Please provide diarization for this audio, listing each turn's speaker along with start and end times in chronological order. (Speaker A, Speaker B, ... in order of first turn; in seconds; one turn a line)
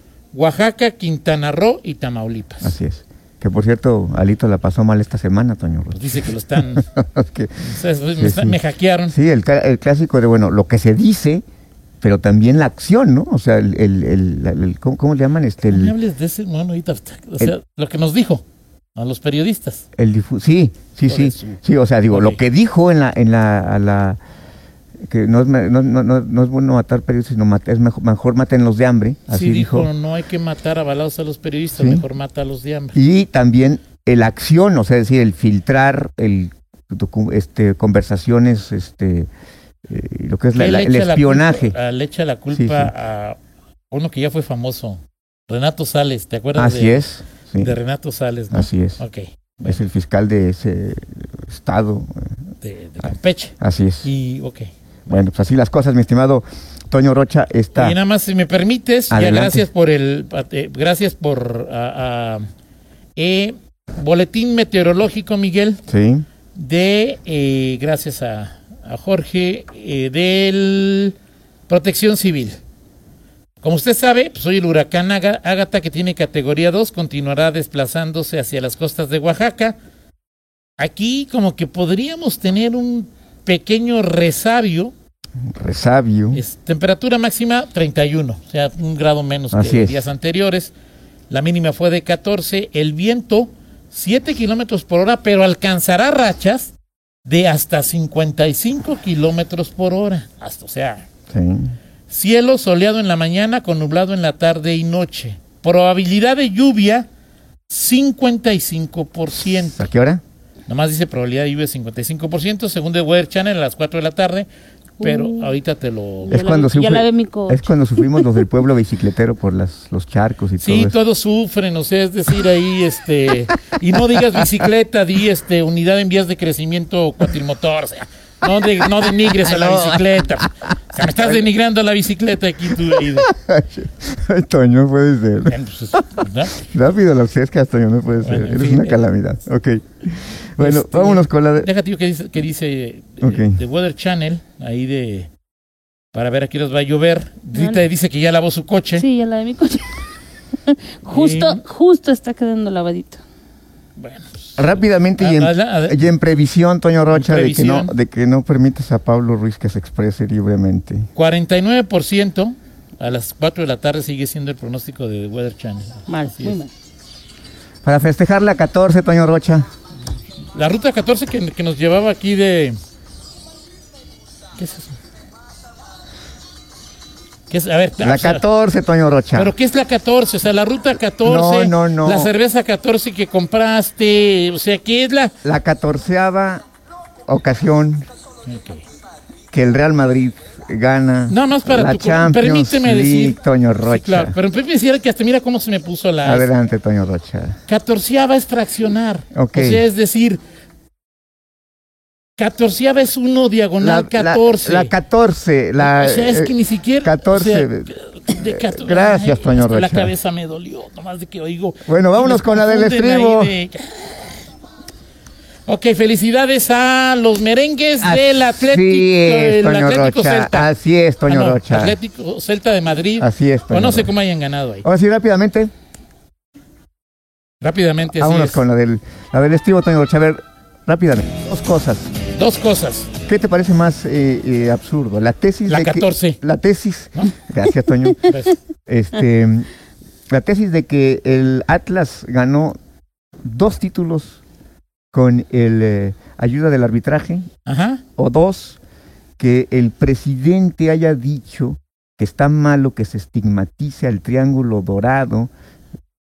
Speaker A: 0.3-2.8
Speaker B: 2.6-8.6
Speaker A: 5.9-6.9
Speaker A: 7.6-9.2
Speaker B: 9.1-11.4
Speaker B: 12.0-15.9
Speaker A: 15.7-18.4
Speaker A: 18.9-19.9
Speaker B: 20.0-24.2
Speaker A: 21.1-21.6
Speaker A: 22.1-22.4
Speaker B: 25.1-29.9
Speaker A: 29.3-33.0
Speaker B: 31.8-32.0
Speaker B: 32.9-39.3
Speaker B: 39.9-41.8
Speaker A: 40.5-43.4
Speaker B: 42.5-42.9
Speaker A: 43.9-47.0
Speaker B: 46.5-47.8
Speaker A: 47.6-49.8
Speaker B: 48.5-49.0
Speaker B: 49.6-52.3
Speaker A: 52.6-54.7
Speaker B: 53.6-54.1
Speaker B: 55.1-58.0
Speaker A: 57.8-62.5
Speaker B: 59.1-59.7
Speaker A: 63.2-65.8
Speaker B: 65.9-66.3
Speaker A: 66.5-71.2
Speaker A: 71.7-72.6
Speaker A: 73.6-79.8
Speaker A: 80.8-84.9
Speaker B: 85.5-86.4
Speaker A: 86.3-90.7
Speaker B: 89.5-90.1
Speaker A: 91.3-101.1
Speaker B: 101.3-101.8
Speaker A: 102.1-107.1
Speaker A: 107.7-109.9
Speaker B: 109.7-110.2
Speaker A: 110.7-114.5
Speaker A: 115.0-116.4
Speaker C: 115.0-115.5
Speaker C: 116.3-118.3
Speaker B: 116.3-121.0
Speaker A: 120.6-133.3
Speaker B: 124.1-124.5
Speaker B: 128.8-131.4
Speaker B: 132.7-136.0
Speaker A: 135.4-136.6
Speaker B: 136.6-141.7
Speaker A: 138.2-139.0
Speaker A: 140.6-145.3
Speaker B: 143.2-143.6
Speaker A: 146.1-149.1
Speaker C: 149.0-150.0
Speaker C: 150.7-153.2
Speaker A: 151.1-151.6
Speaker A: 154.0-156.1
Speaker B: 154.6-161.1
Speaker A: 157.1-157.9
Speaker A: 161.2-166.6
Speaker C: 166.1-166.7
Speaker B: 167.8-169.7
Speaker A: 170.5-172.8
Speaker A: 174.6-175.0
Speaker A: 177.5-178.4
Speaker B: 178.0-179.5
Speaker A: 179.3-185.3
Speaker B: 181.2-182.3
Speaker B: 185.4-186.6
Speaker B: 187.3-188.1
Speaker A: 188.5-188.8
Speaker B: 189.5-194.3
Speaker A: 191.3-196.5
Speaker B: 196.2-197.6
Speaker A: 197.7-200.4
Speaker B: 199.3-199.8
Speaker A: 202.4-204.9
Speaker B: 203.8-210.1
Speaker A: 205.8-214.5
Speaker B: 211.9-213.6
Speaker A: 215.7-220.7
Speaker B: 218.0-222.0
Speaker A: 221.3-224.9
Speaker B: 223.2-224.1
Speaker B: 224.8-225.7
Speaker A: 227.6-228.7
Speaker B: 228.2-232.1
Speaker A: 232.4-233.1
Speaker B: 233.3-239.7
Speaker A: 235.7-236.4
Speaker A: 238.2-238.6
Speaker B: 240.3-242.8
Speaker B: 243.4-244.4
Speaker B: 245.1-247.5
Speaker A: 247.7-248.0
Speaker B: 248.2-248.8
Speaker B: 249.4-255.5